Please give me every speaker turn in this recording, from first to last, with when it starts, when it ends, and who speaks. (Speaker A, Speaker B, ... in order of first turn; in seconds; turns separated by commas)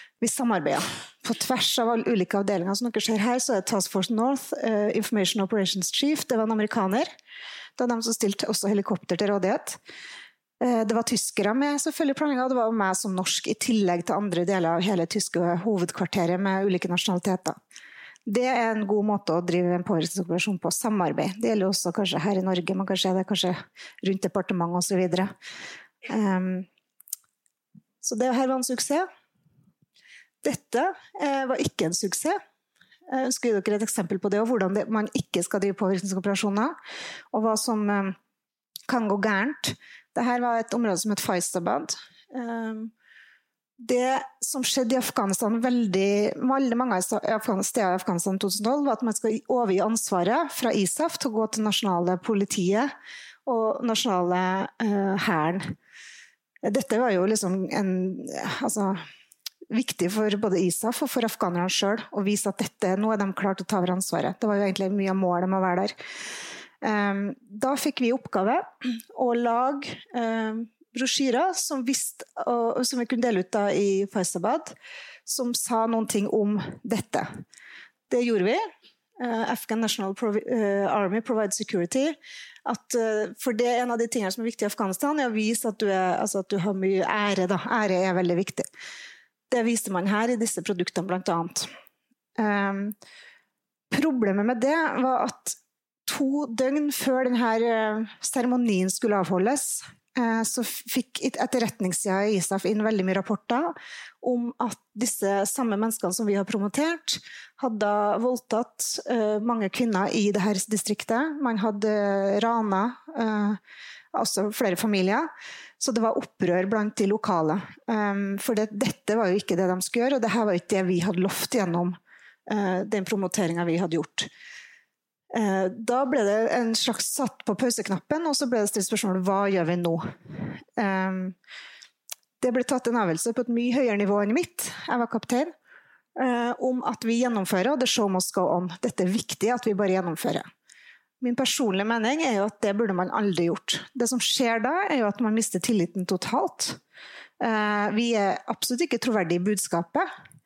Speaker A: 0.2-7.1, Speaker A: 7.8-9.8, Speaker A: 10.6-17.6, Speaker A: 18.2-25.3, Speaker A: 26.1-26.7, Speaker A: 28.0-29.1, Speaker A: 30.4-32.4, Speaker A: 33.1-36.7, Speaker A: 37.3-38.1, Speaker A: 38.9-42.9, Speaker A: 43.8-52.9, Speaker A: 53.5-55.7, Speaker A: 56.6-59.0, Speaker A: 59.7-65.9, Speaker A: 66.8-74.7, Speaker A: 75.2-77.3, Speaker A: 78.1-78.6, Speaker A: 79.2-88.7, Speaker A: 89.5-91.7, Speaker A: 92.4-93.0, Speaker A: 93.9-113.6, Speaker A: 114.1-124.3, Speaker A: 125.3-131.3, Speaker A: 132.4-135.5, Speaker A: 136.2-140.5, Speaker A: 141.2-146.8, Speaker A: 147.4-150.1